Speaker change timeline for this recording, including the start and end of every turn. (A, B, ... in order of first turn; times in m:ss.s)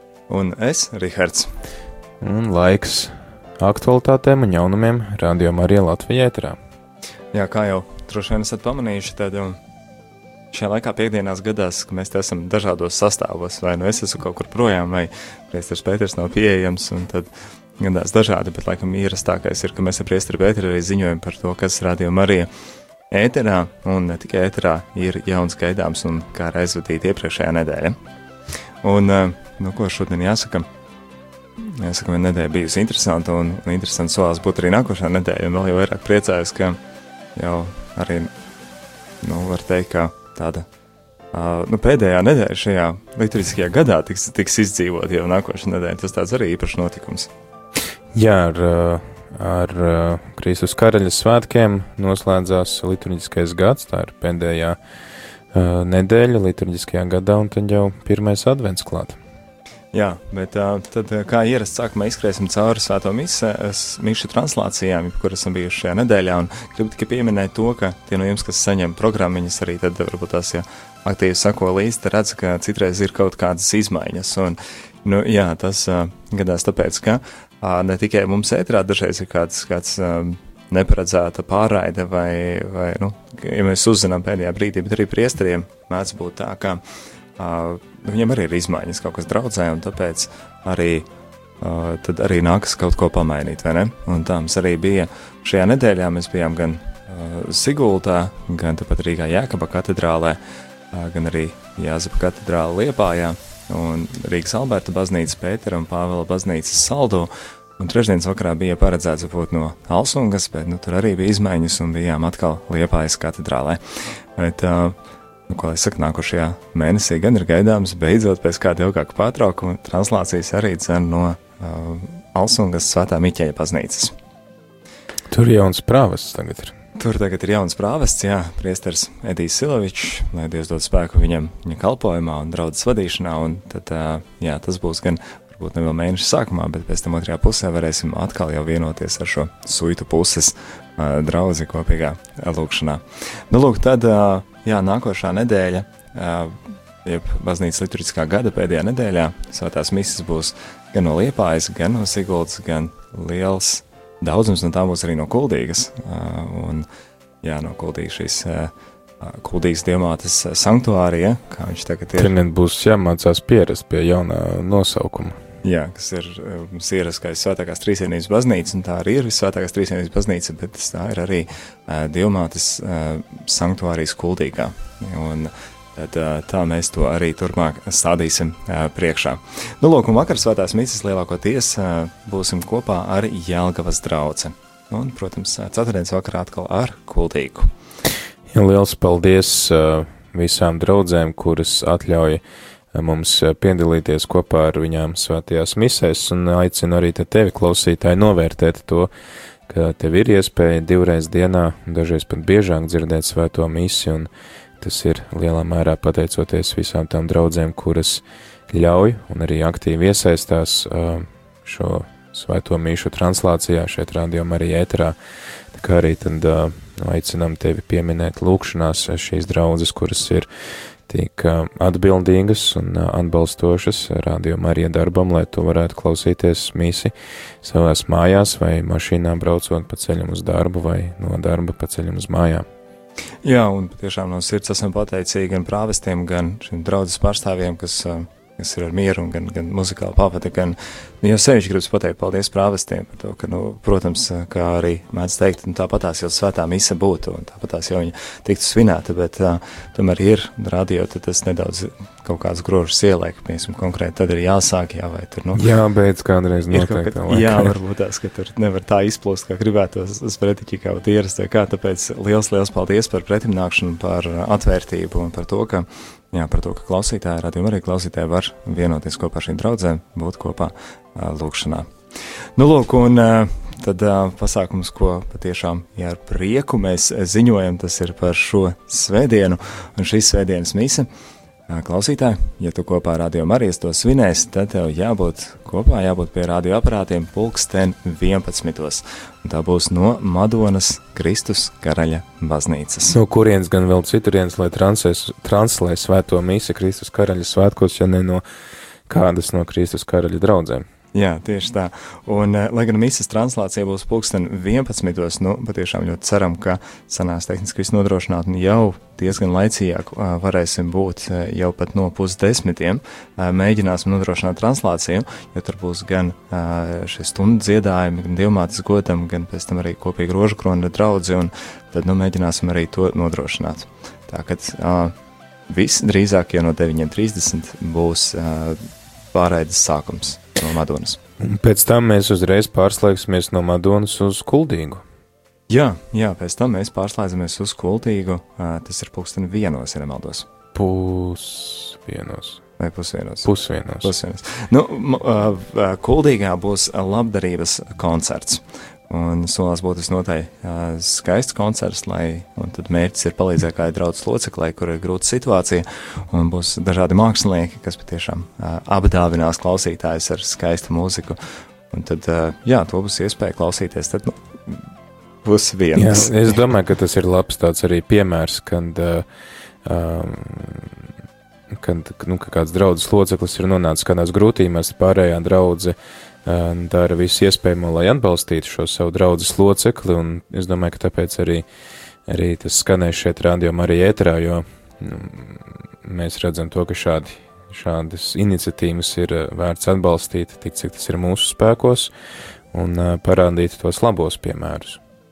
0:00.3-0:01.5 A
0:02.2-0:06.6 B
0:07.3-0:09.6 A
0:10.5-0:22.5 A
0:23.1-0:28.0 A
0:28.8-0:30.7 A
0:31.6-0:36.8 A
0:37.3-0:38.3 A
0:39.2-0:40.6 A
0:41.3-0:47.3 A
0:48.1-0:54.8 B
0:55.5-0:59.2 B
0:59.9-1:26.8 A
1:27.4-1:31.1 A
1:31.6-1:40.4 A
1:40.9-1:53.8 A
1:54.4-1:55.0 A
1:55.5-2:04.1 A
2:05.3-2:06.7 B
2:07.0-2:36.8 A
2:37.4-2:42.3 A
2:42.2-2:45.4 B
2:45.6-3:07.7 A
3:08.5-3:12.4 B
3:12.9-3:19.1 B
3:19.7-3:24.3 B
3:24.8-3:35.2 B
3:35.7-3:40.5 B
3:41.1-3:52.6 B
3:53.4-4:15.6 A
4:15.5-4:17.7 B
4:16.7-4:31.9 A
4:32.6-4:41.1 A
4:41.7-4:53.2 A
4:53.1-4:58.4 B
4:59.1-5:00.9 B
5:01.1-5:25.1 A
5:25.7-5:31.2 A
5:31.4-5:35.0 B
5:35.7-5:40.5 A
5:40.7-5:42.6 B
5:42.8-6:01.4 A
5:43.4-5:44.1 B
6:01.9-6:04.9 A
6:05.4-6:06.6 A
6:05.9-6:09.2 B
6:09.8-6:11.0 B
6:11.7-6:21.6 B
6:22.3-6:32.1 B
6:32.7-6:35.0 B